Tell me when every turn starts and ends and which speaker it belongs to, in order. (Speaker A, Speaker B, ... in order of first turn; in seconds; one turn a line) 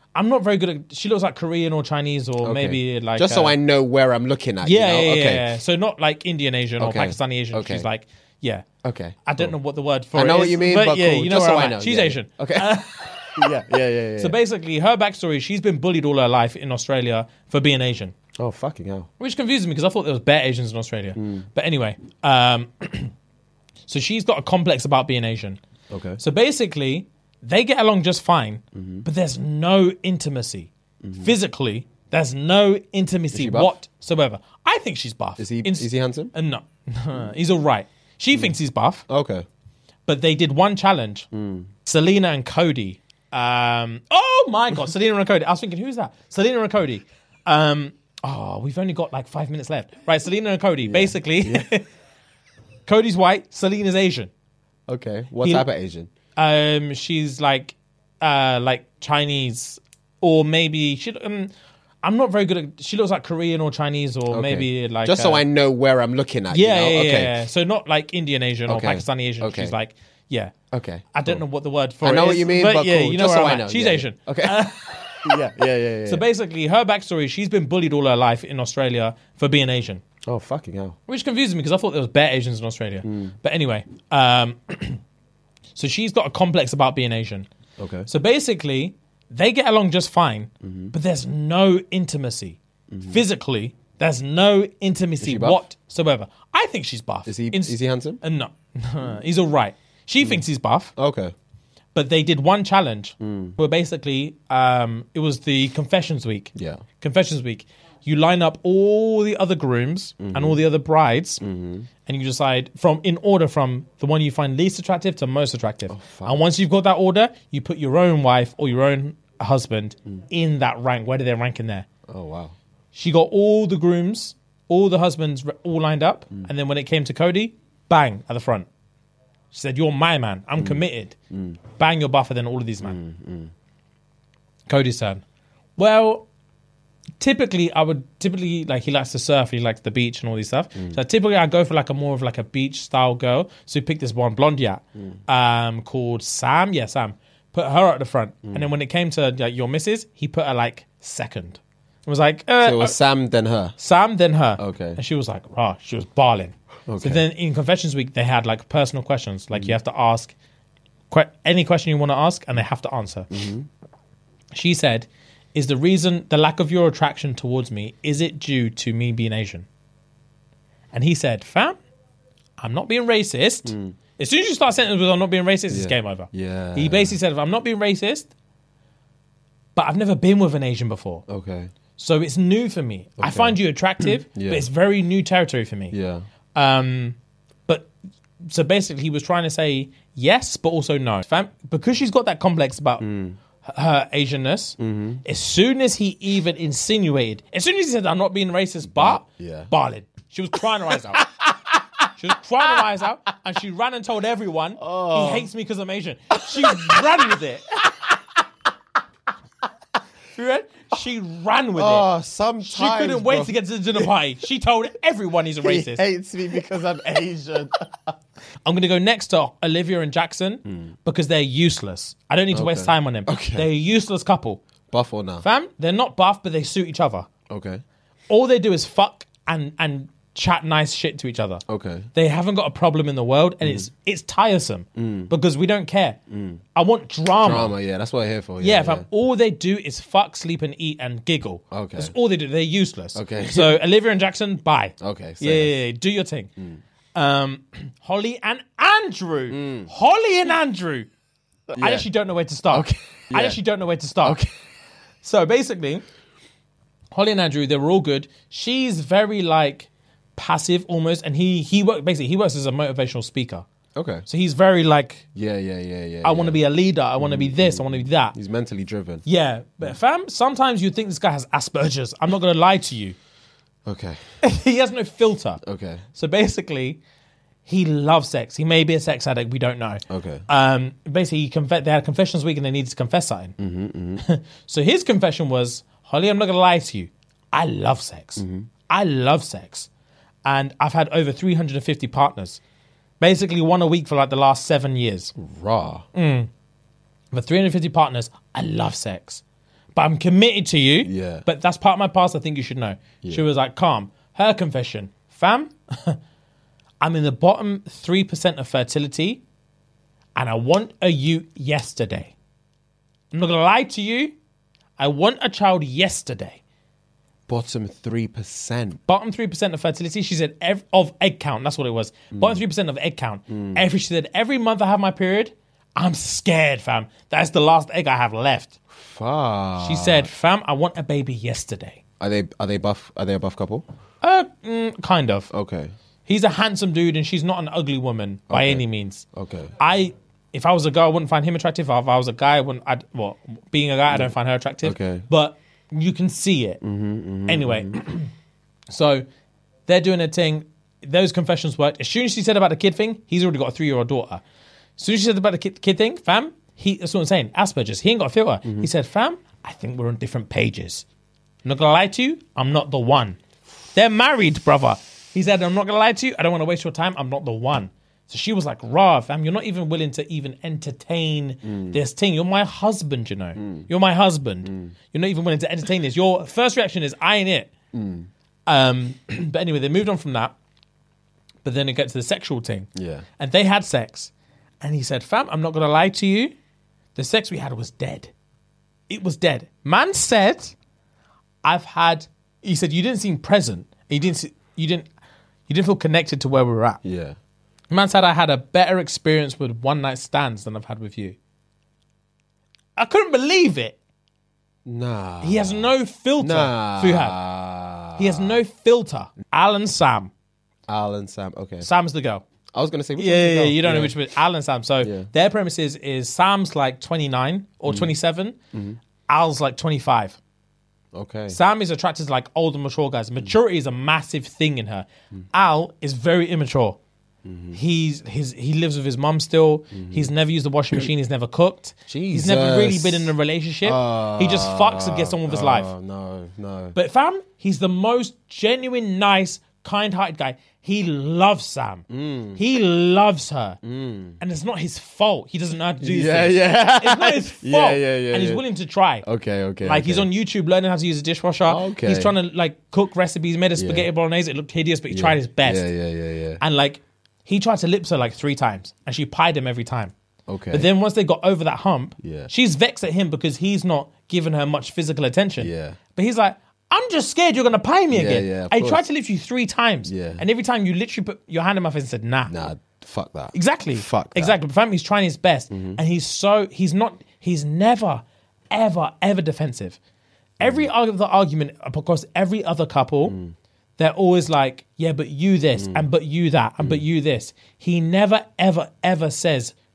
Speaker A: 0.1-3.5
Speaker B: 2.4-5.5
Speaker A: 4.6-8.7
Speaker B: 6.8-7.9
Speaker B: 8.8-9.5
Speaker A: 9.2-13.5
Speaker B: 10.1-14.4
Speaker A: 14.2-18.1
Speaker B: 18.4-19.1
Speaker A: 19.2-23.1
Speaker B: 21.1-21.4
Speaker A: 23.9-25.6
Speaker B: 25.9-26.2
Speaker A: 26.2-39.0
Speaker B: 28.7-29.1
Speaker B: 31.0-31.3
Speaker B: 33.3-33.7
Speaker B: 35.4-36.3
Speaker B: 39.1-39.5
Speaker A: 40.1-41.3
Speaker B: 41.3-41.7
Speaker A: 41.8-51.9
Speaker B: 50.8-51.7
Speaker A: 52.9-54.3
Speaker B: 54.9-56.1
Speaker A: 55.4-55.7
Speaker A: 56.4-61.5
Speaker A: 62.0-65.4
Speaker B: 64.3-67.4
Speaker A: 66.5-70.5
Speaker B: 68.7-69.7
Speaker B: 70.7-71.4
Speaker A: 71.1-75.4
Speaker B: 72.0-76.2
Speaker A: 76.0-80.0
Speaker B: 80.2-81.0
Speaker A: 81.1-85.0
Speaker B: 83.0-83.3
Speaker A: 85.7-87.5
Speaker B: 87.8-88.1
Speaker A: 88.1-100.9
Speaker B: 90.6-90.9
Speaker B: 92.9-93.2
Speaker B: 95.2-95.6
Speaker B: 97.2-98.2
Speaker B: 101.0-101.3
Speaker A: 101.9-111.4
Speaker B: 103.2-103.5
Speaker B: 106.5-106.8
Speaker B: 110.2-110.6
Speaker B: 111.4-111.9
Speaker A: 112.0-121.8
Speaker B: 115.9-116.4
Speaker B: 122.1-122.5
Speaker A: 122.9-128.7
Speaker A: 129.5-131.2
Speaker B: 130.6-131.6
Speaker A: 131.7-133.0
Speaker B: 132.8-133.5
Speaker A: 134.7-135.2
Speaker A: 135.8-136.3
Speaker A: 137.2-153.0
Speaker B: 140.7-141.0
Speaker B: 152.6-153.8
Speaker A: 153.8-160.3
Speaker B: 154.6-155.0
Speaker B: 156.9-157.2
Speaker A: 161.1-163.4
Speaker B: 163.3-163.7
Speaker A: 164.5-169.7
Speaker A: 170.9-171.8
Speaker A: 172.6-178.3
Speaker B: 173.6-173.9
Speaker B: 175.7-177.2
Speaker A: 179.7-181.2
Speaker B: 181.3-181.7
Speaker A: 182.0-185.9
Speaker B: 183.2-184.6
Speaker B: 185.9-186.2
Speaker A: 186.5-187.2
Speaker A: 188.4-193.1
Speaker B: 193.0-193.4
Speaker A: 193.6-201.2
Speaker B: 194.8-195.2
Speaker B: 198.8-199.7
Speaker B: 200.9-202.0
Speaker A: 202.1-207.7
Speaker B: 204.8-205.5
Speaker B: 206.4-208.1
Speaker A: 210.3-212.1
Speaker B: 211.8-214.1
Speaker A: 212.6-216.0
Speaker B: 215.6-218.1
Speaker A: 218.6-224.6
Speaker B: 222.5-223.7
Speaker B: 224.9-225.4
Speaker A: 225.4-227.3
Speaker B: 227.5-227.8
Speaker A: 228.3-231.6
Speaker B: 231.7-232.1
Speaker A: 232.1-236.2
Speaker B: 233.6-233.9
Speaker B: 234.9-235.3
Speaker B: 236.3-236.6
Speaker A: 236.7-237.8
Speaker B: 237.4-239.1
Speaker A: 238.6-246.5
Speaker B: 241.7-242.1
Speaker B: 243.1-243.8
Speaker B: 245.0-245.8
Speaker A: 247.1-251.1
Speaker B: 249.5-249.9
Speaker B: 251.7-252.1
Speaker A: 251.8-254.4
Speaker B: 252.7-253.6
Speaker B: 254.2-254.5
Speaker A: 255.2-256.0
Speaker A: 257.1-263.6
Speaker B: 263.9-264.2
Speaker A: 264.3-265.2
Speaker B: 265.3-266.6
Speaker A: 266.2-268.3
Speaker B: 267.2-269.2
Speaker A: 269.2-273.1
Speaker B: 273.8-274.2
Speaker A: 274.4-275.6
Speaker B: 275.6-276.1
Speaker A: 276.1-277.0
Speaker A: 277.6-283.5
Speaker B: 280.1-280.4
Speaker B: 283.6-284.2
Speaker A: 284.2-289.9
Speaker B: 288.4-288.7
Speaker A: 290.4-292.6
Speaker A: 293.2-295.3
Speaker B: 295.4-296.1
Speaker A: 296.1-296.5
Speaker A: 297.3-299.4
Speaker A: 299.9-306.2
Speaker B: 301.0-301.4
Speaker A: 307.0-309.4
Speaker A: 310.4-312.3
Speaker A: 313.3-314.4
Speaker A: 315.0-316.6
Speaker B: 317.5-319.0
Speaker A: 319.1-328.8
Speaker B: 322.3-322.6
Speaker B: 323.5-323.8
Speaker B: 328.9-330.3
Speaker A: 329.8-332.0
Speaker B: 332.2-333.8
Speaker A: 334.2-335.5
Speaker B: 335.5-335.9
Speaker A: 336.2-339.2
Speaker B: 338.5-339.7
Speaker A: 339.8-346.8
Speaker B: 344.8-345.2
Speaker B: 346.8-348.0
Speaker A: 347.4-348.3
Speaker A: 348.9-349.2
Speaker A: 349.9-354.4
Speaker A: 355.0-361.1
Speaker A: 361.6-363.4
Speaker A: 363.9-377.7
Speaker B: 371.6-372.0
Speaker B: 373.6-373.9
Speaker B: 374.6-374.9
Speaker B: 377.9-378.3
Speaker A: 378.7-380.5
Speaker A: 381.6-386.5
Speaker B: 382.9-383.2
Speaker A: 387.1-388.3
Speaker A: 389.1-390.7
Speaker A: 391.6-395.1
Speaker A: 395.7-397.0
Speaker B: 397.0-397.4
Speaker A: 397.9-401.4
Speaker A: 403.0-404.0
Speaker B: 404.8-408.6
Speaker A: 405.4-407.4
Speaker A: 408.2-410.3
Speaker B: 410.9-411.9
Speaker A: 411.8-412.4
Speaker B: 412.7-414.2
Speaker A: 413.2-418.6
Speaker B: 415.0-415.3
Speaker B: 417.9-418.1
Speaker B: 418.7-419.0
Speaker A: 419.3-420.4
Speaker B: 421.1-421.6
Speaker A: 421.5-427.0
Speaker B: 427.4-427.8
Speaker A: 427.7-435.9
Speaker B: 429.9-430.3
Speaker B: 432.1-433.3
Speaker B: 433.8-436.9
Speaker A: 436.9-443.8
Speaker B: 442.1-442.6
Speaker B: 443.8-444.4
Speaker A: 444.4-449.2
Speaker B: 446.0-448.6
Speaker B: 449.2-450.3
Speaker A: 449.8-455.9
Speaker B: 451.7-452.3
Speaker B: 453.8-454.1
Speaker B: 455.1-456.6
Speaker A: 456.6-460.1
Speaker B: 460.5-460.9
Speaker A: 460.7-472.5
Speaker B: 462.2-462.5
Speaker B: 465.6-466.0
Speaker B: 468.1-469.1
Speaker B: 470.1-470.4
Speaker B: 472.5-474.6
Speaker A: 473.5-480.0
Speaker B: 475.7-476.0
Speaker A: 480.6-483.4
Speaker B: 480.6-480.9
Speaker B: 483.3-483.5
Speaker A: 484.0-489.7
Speaker B: 485.8-486.1